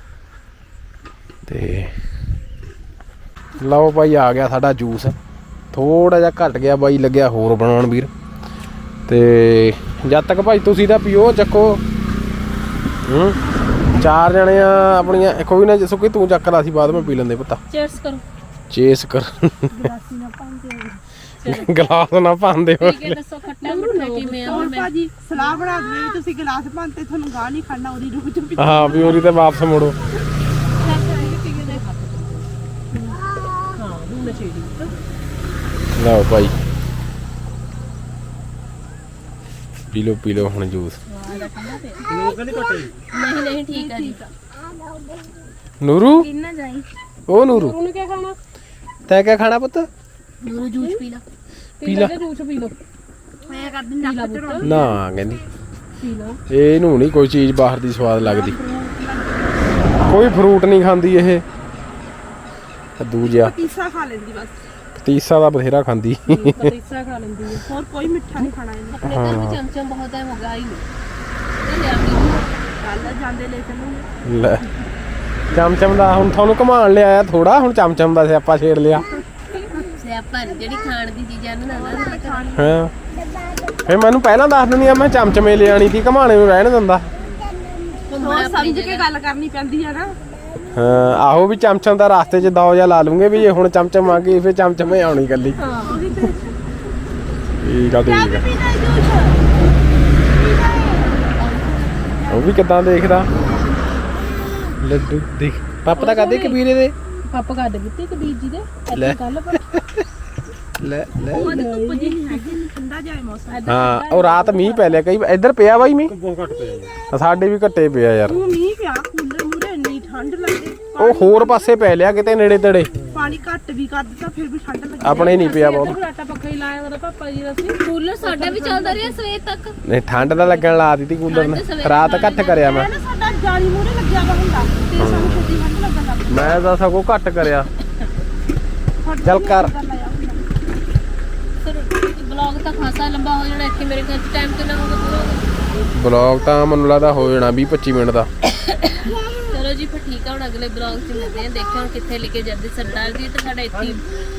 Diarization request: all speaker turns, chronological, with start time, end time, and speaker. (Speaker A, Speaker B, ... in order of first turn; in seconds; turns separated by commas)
Speaker A: 1.5-1.9, Speaker A: 3.6-5.2, Speaker A: 5.7-8.1, Speaker A: 9.1-11.8, Speaker A: 13.0-13.4, Speaker A: 14.0-17.6, Speaker B: 17.7-18.2, Speaker A: 18.7-19.9, Speaker C: 19.7-21.0, Speaker B: 21.4-21.7, Speaker A: 21.4-23.2, Speaker B: 22.8-24.9, Speaker D: 23.6-24.8, Speaker C: 24.4-29.2, Speaker A: 28.6-30.0, Speaker D: 30.8-32.8, Speaker B: 31.1-31.8, Speaker B: 33.8-34.9, Speaker D: 33.9-34.6, Speaker A: 36.0-36.5, Speaker A: 39.9-41.0, Speaker B: 41.1-42.5, Speaker D: 42.2-42.9, Speaker B: 43.1-44.2, Speaker C: 43.8-44.1, Speaker D: 43.9-44.3, Speaker A: 45.8-46.3, Speaker C: 46.2-46.9, Speaker A: 47.3-47.8, Speaker D: 47.5-48.4, Speaker A: 49.1-49.9, Speaker B: 50.4-51.2, Speaker D: 50.8-51.0, Speaker D: 51.8-52.8, Speaker A: 51.8-52.1, Speaker C: 53.4-54.9, Speaker D: 54.0-54.7, Speaker A: 54.6-55.4, Speaker D: 56.0-56.4, Speaker A: 56.5-58.6, Speaker C: 58.2-60.0, Speaker A: 60.0-61.4, Speaker A: 63.0-63.5, Speaker C: 63.2-64.6, Speaker A: 65.0-66.7, Speaker D: 66.3-67.7, Speaker C: 67.6-69.0, Speaker B: 68.9-70.9, Speaker A: 69.1-69.6, Speaker B: 71.6-72.5, Speaker C: 72.7-74.1, Speaker A: 74.2-74.7, Speaker A: 75.5-79.1, Speaker B: 79.5-82.6, Speaker C: 81.7-82.6, Speaker A: 82.6-82.9, Speaker A: 83.9-87.1, Speaker B: 88.1-89.1, Speaker C: 88.2-90.2, Speaker A: 90.8-95.6, Speaker D: 95.6-96.1, Speaker C: 95.8-96.6, Speaker A: 97.6-98.5, Speaker C: 98.0-99.4, Speaker C: 100.3-102.1, Speaker A: 102.3-103.3, Speaker A: 104.8-107.0, Speaker D: 106.0-106.6, Speaker D: 107.3-109.6, Speaker A: 108.9-110.0, Speaker A: 110.8-111.5, Speaker C: 111.3-113.7, Speaker D: 111.4-112.4, Speaker D: 113.5-115.0, Speaker A: 113.7-116.2, Speaker D: 116.5-116.8, Speaker A: 117.1-118.4, Speaker C: 118.3-121.7, Speaker A: 121.0-122.9, Speaker C: 123.1-125.6, Speaker A: 125.0-126.0, Speaker D: 125.1-129.2, Speaker B: 127.8-129.8, Speaker A: 129.8-132.9, Speaker B: 131.3-132.7, Speaker C: 132.6-136.6, Speaker A: 135.0-135.6, Speaker A: 136.3-137.7, Speaker C: 139.0-140.4, Speaker A: 139.2-139.7, Speaker B: 141.6-145.8, Speaker A: 145.9-148.3, Speaker B: 148.5-154.1, Speaker C: 149.0-149.6